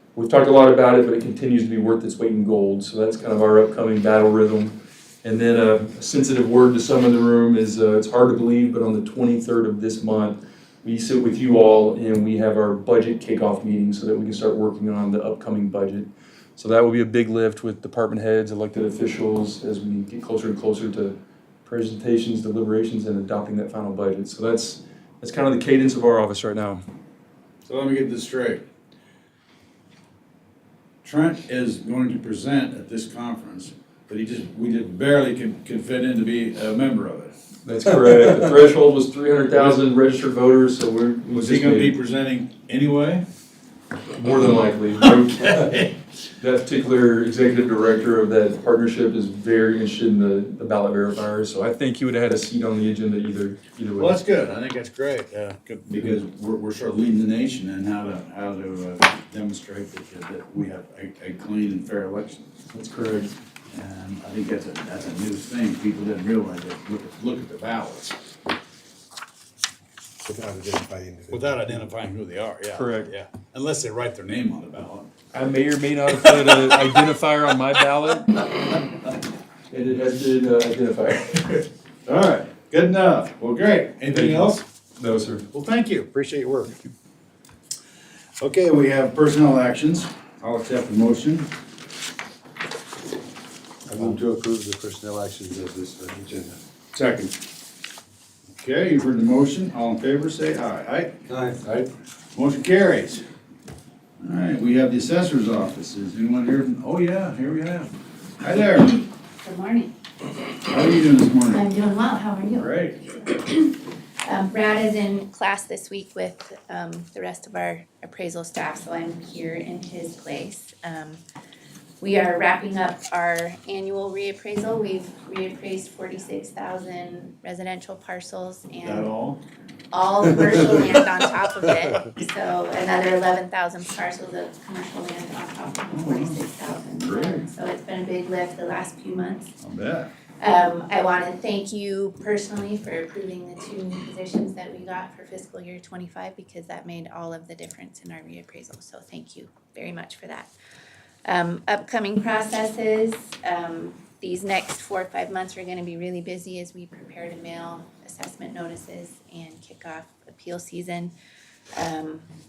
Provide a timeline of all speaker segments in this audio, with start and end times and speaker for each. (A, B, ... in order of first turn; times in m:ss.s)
0:00.1-0:26.8 A
0:27.6-0:28.6 B
0:31.0-0:37.3 B
0:37.6-0:41.9 A
0:41.3-0:43.2 B
0:44.1-0:45.8 A
0:45.5-0:45.9 B
0:46.4-0:54.1 A
0:54.0-1:02.5 B
1:02.7-1:03.4 A
1:03.7-1:08.2 B
1:10.2-1:11.8 C
1:11.3-1:15.1 B
1:12.7-1:13.1 A
1:15.3-1:18.4 A
1:19.7-1:21.7 A
1:22.0-1:24.6 B
1:24.1-1:25.5 A
1:25.5-1:26.9 B
1:28.4-1:31.5 B
1:33.8-1:36.6 C
1:36.9-1:37.4 B
1:38.5-1:41.2 B
1:41.3-1:41.9 C
1:42.3-1:43.2 B
1:44.2-1:49.0 B
1:49.4-1:49.9 D
1:50.6-1:51.7 B
1:51.5-2:01.2 D
1:52.5-1:53.0 B
2:02.0-2:09.1 D
2:08.8-2:09.4 B
2:09.9-2:19.5 D
2:15.9-2:17.4 B
2:19.6-2:20.1 B
2:20.4-2:30.5 D
2:31.2-2:41.1 D
2:41.7-2:42.3 D